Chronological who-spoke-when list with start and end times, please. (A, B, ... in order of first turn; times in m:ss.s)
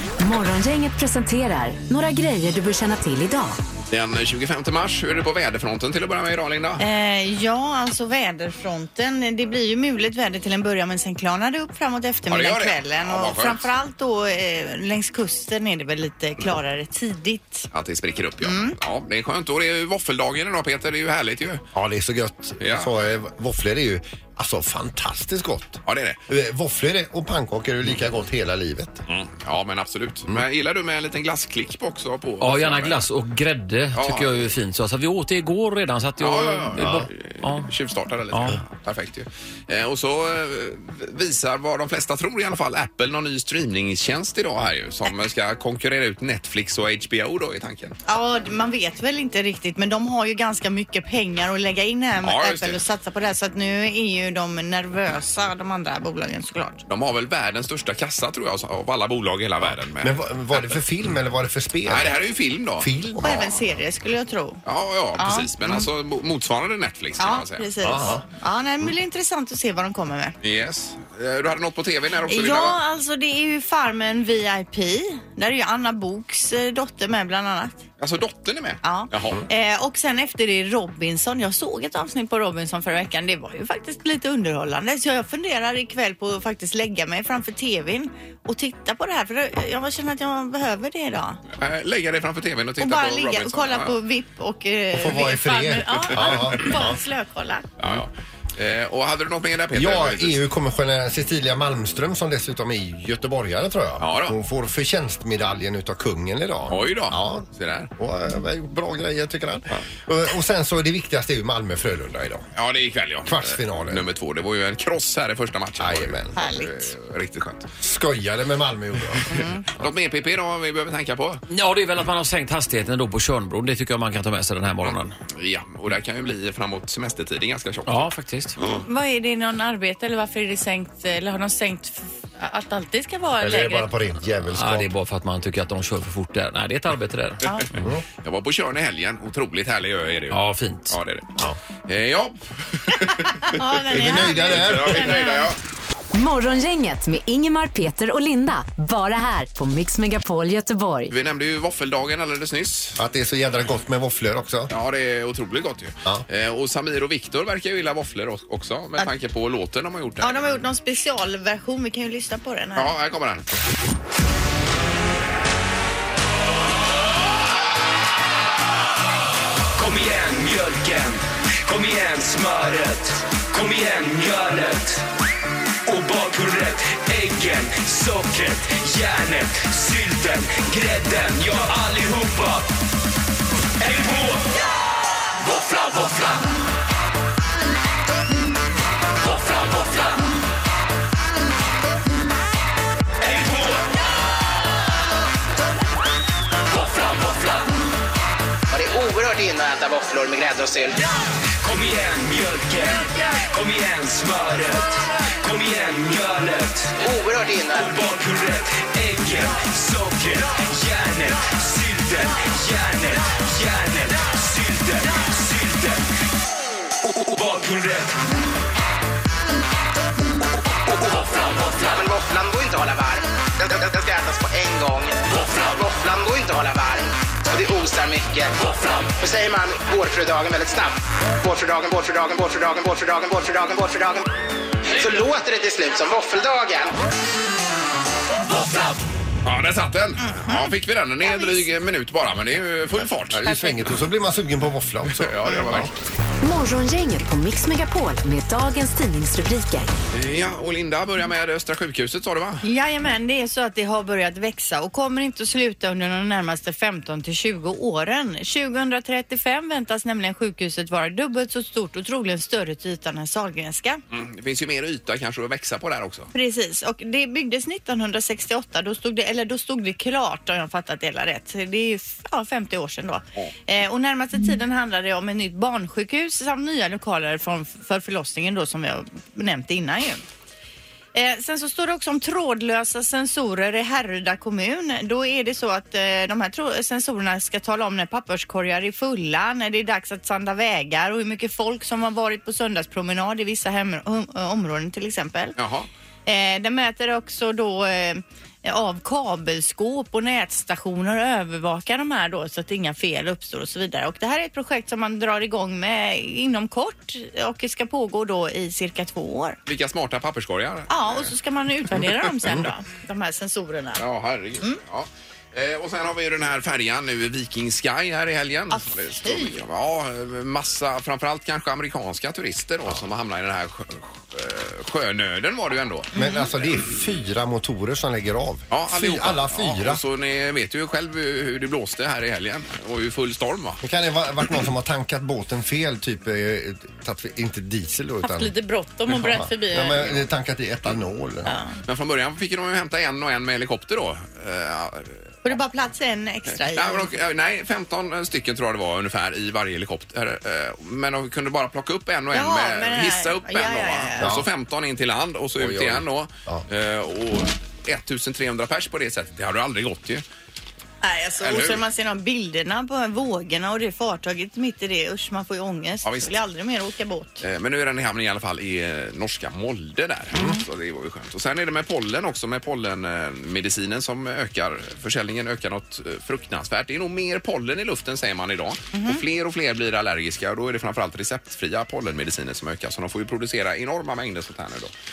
0:00.2-0:03.6 A
0:03.9-0:06.8 B
0:06.8-0:17.7 C
0:12.3-0:13.7 B
0:17.7-0:21.6 B
0:18.4-0:18.8 C
0:21.7-0:29.0 D
0:22.6-0:22.9 B
0:25.8-0:26.2 B
0:29.1-0:33.0 B
0:32.4-0:37.7 E
0:33.9-0:34.4 B
0:36.2-0:48.0 B
0:36.8-0:37.1 D
0:38.3-0:38.6 E
0:48.1-0:56.8 C
0:52.2-0:52.8 B
0:56.9-1:00.8 B
0:59.6-1:02.1 D
1:01.8-1:02.9 B
1:02.8-1:03.5 D
1:03.2-1:04.6 C
1:04.6-1:07.6 B
1:05.2-1:05.9 C
1:07.2-1:10.3 C
1:07.8-1:08.2 D
1:10.4-1:12.8 B
1:12.3-1:17.8 C
1:18.0-1:19.4 B
1:18.8-1:31.4 C
1:31.6-1:34.0 B
1:32.8-1:37.7 C
1:34.9-1:37.0 D
1:37.8-1:40.4 B
1:39.7-1:47.4 D
1:44.0-1:44.4 B
1:46.7-1:47.9 B
1:48.0-1:52.5 D
1:52.5-1:57.7 B
1:53.2-1:54.0 D
1:55.8-1:56.6 D
1:56.4-1:56.9 C
1:57.8-1:59.3 D
1:59.3-1:59.6 C
1:59.7-2:01.4 B
2:01.5-2:05.1 E
2:05.3-2:08.1 B
2:07.9-2:08.6 E
2:08.8-2:13.9 C
2:13.4-2:14.9 D
2:14.6-2:17.4 E
2:18.2-2:20.4 B
2:20.3-2:21.0 E
2:20.9-2:21.3 B
2:21.9-2:23.5 B
2:23.5-2:25.5 C
2:23.9-2:25.2 D
2:24.1-2:25.6 B
2:26.1-2:31.1 A
2:31.1-2:33.0 B
2:33.0-2:34.7 D
2:34.7-2:40.5 B
2:40.2-2:42.9 C
2:42.8-2:43.4 B
2:49.7-2:55.0 F
2:55.8-3:02.7 F
3:03.8-3:04.6 F
3:05.4-3:06.4 F
3:13.2-3:13.9 F
3:16.7-3:17.6 F
3:18.7-3:21.0 G
3:21.6-3:27.0 F
3:27.0-3:27.9 G
3:27.7-3:36.1 F
3:37.0-3:38.2 F
3:41.9-3:48.5 G
3:49.2-3:54.2 G
3:54.9-3:56.9 G
3:59.4-4:03.8 B
4:03.3-4:05.9 D
4:05.1-4:05.9 B
4:06.4-4:09.9 A
4:10.1-4:12.6 B
4:12.6-4:24.0 C
4:24.1-4:26.3 B
4:26.3-4:40.2 C
4:41.1-4:55.6 C
4:55.6-4:55.9 B
4:56.2-5:09.6 C
5:09.6-5:11.3 B
5:10.9-5:14.0 C
5:14.0-5:26.1 B
5:18.7-5:19.6 C
5:26.1-5:30.0 D
5:26.1-5:26.4 C
5:28.7-5:33.8 B
5:33.8-5:38.5 D
5:38.2-5:40.1 C
5:39.1-5:41.6 D
5:41.4-5:41.7 C
5:41.8-5:45.3 B
5:45.4-5:47.1 C
5:46.7-6:00.2 B
5:52.3-5:54.3 C
5:54.2-5:54.5 D
5:55.6-5:56.6 D
6:01.0-6:07.4 C
6:01.4-6:01.8 B
6:06.0-6:06.3 B
6:07.4-6:24.9 B
6:10.3-6:10.6 C
6:18.9-6:19.2 C